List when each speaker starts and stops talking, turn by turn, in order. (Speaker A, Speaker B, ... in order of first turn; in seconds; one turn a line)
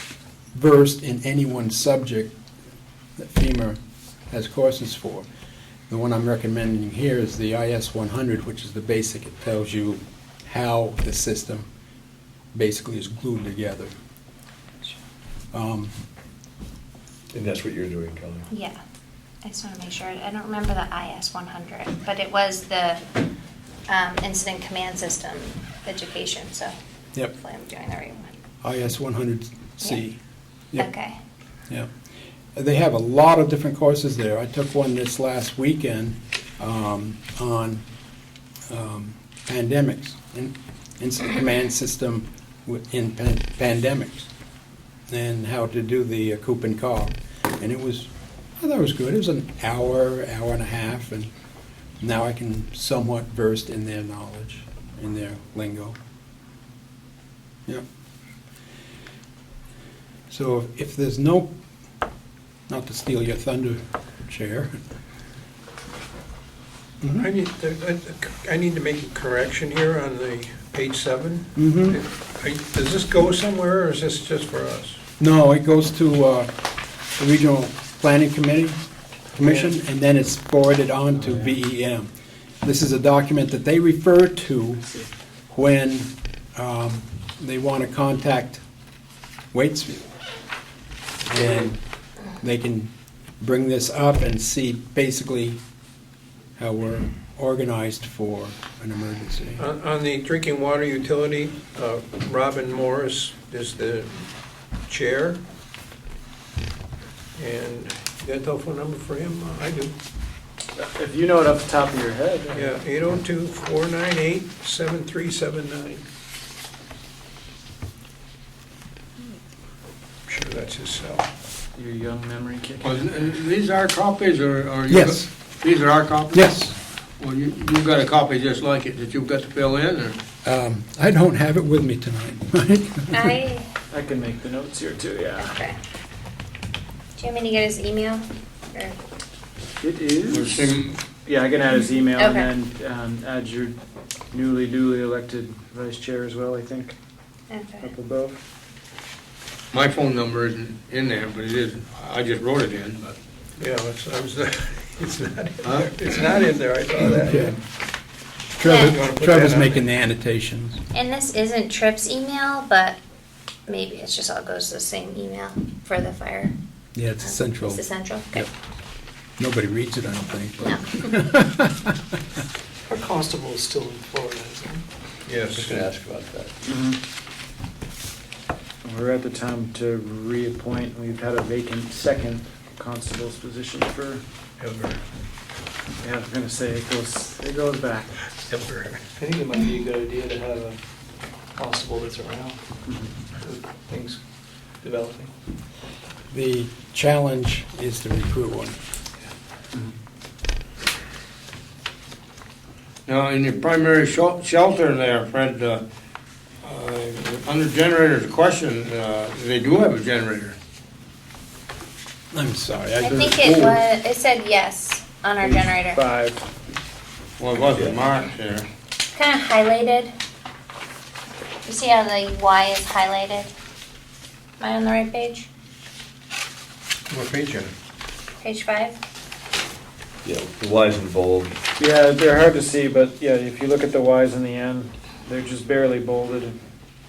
Speaker A: 0.5-2.3
Speaker A: 3.2-3.8
Speaker A: 4.3-5.2
Speaker A: 5.9-11.7
Speaker A: 12.5-13.9
Speaker A: 15.5-15.9
Speaker B: 17.3-18.4
Speaker C: 18.5-18.8
Speaker C: 19.4-23.0
Speaker C: 23.9-26.7
Speaker C: 27.3-28.3
Speaker A: 28.6-30.2
Speaker C: 30.7-31.2
Speaker A: 32.5-37.8
Speaker A: 38.7-44.3
Speaker A: 45.1-51.3
Speaker A: 52.0-56.0
Speaker A: 60.3-61.5
Speaker A: 62.7-64.7
Speaker A: 67.0-67.3
Speaker D: 67.2-75.0
Speaker A: 71.5-72.0
Speaker A: 75.2-76.5
Speaker A: 77.2-78.8
Speaker A: 79.3-82.1
Speaker A: 82.6-85.0
Speaker A: 85.5-88.6
Speaker A: 89.5-90.1
Speaker A: 91.2-91.8
Speaker D: 91.3-91.7
Speaker A: 92.4-95.6
Speaker A: 96.6-99.7
Speaker D: 99.6-104.3
Speaker D: 104.9-105.4
Speaker D: 107.3-110.0
Speaker E: 110.8-112.7
Speaker D: 112.5-116.0
Speaker D: 120.2-121.3
Speaker E: 121.7-123.0
Speaker F: 122.8-126.5
Speaker A: 124.9-125.3
Speaker A: 126.3-126.7
Speaker F: 127.2-130.2
Speaker A: 130.4-133.3
Speaker C: 133.1-133.7
Speaker E: 133.9-135.5
Speaker C: 135.3-135.8
Speaker C: 137.2-139.0
Speaker E: 139.8-143.8
Speaker F: 140.3-141.0
Speaker C: 142.2-142.5
Speaker E: 144.3-147.0
Speaker C: 147.5-147.9
Speaker E: 147.8-148.4
Speaker F: 149.7-153.1
Speaker D: 153.6-157.5
Speaker F: 155.6-155.9
Speaker A: 157.2-157.6
Speaker A: 158.6-160.8
Speaker C: 158.6-159.0
Speaker D: 158.7-159.8
Speaker C: 160.9-163.0
Speaker C: 163.7-166.6
Speaker A: 166.9-168.5
Speaker C: 167.2-168.5
Speaker A: 169.4-171.9
Speaker C: 170.6-171.0
Speaker G: 172.9-174.8
Speaker D: 175.3-175.8
Speaker B: 175.5-176.5
Speaker E: 176.6-177.0
Speaker E: 178.8-184.2
Speaker D: 184.6-185.0
Speaker E: 186.0-188.1
Speaker D: 188.5-189.1
Speaker G: 189.2-190.8
Speaker G: 191.6-192.8
Speaker E: 192.8-193.1
Speaker G: 193.4-194.2
Speaker G: 194.8-195.3
Speaker A: 196.3-198.8
Speaker F: 203.1-205.8
Speaker F: 206.6-210.6
Speaker A: 212.3-213.8
Speaker C: 213.0-216.0
Speaker E: 215.4-216.5
Speaker F: 217.4-218.7
Speaker C: 219.1-220.1
Speaker C: 221.7-223.5
Speaker C: 224.6-225.5
Speaker D: 227.1-227.7
Speaker C: 228.4-229.0
Speaker B: 230.2-231.5
Speaker E: 231.8-236.6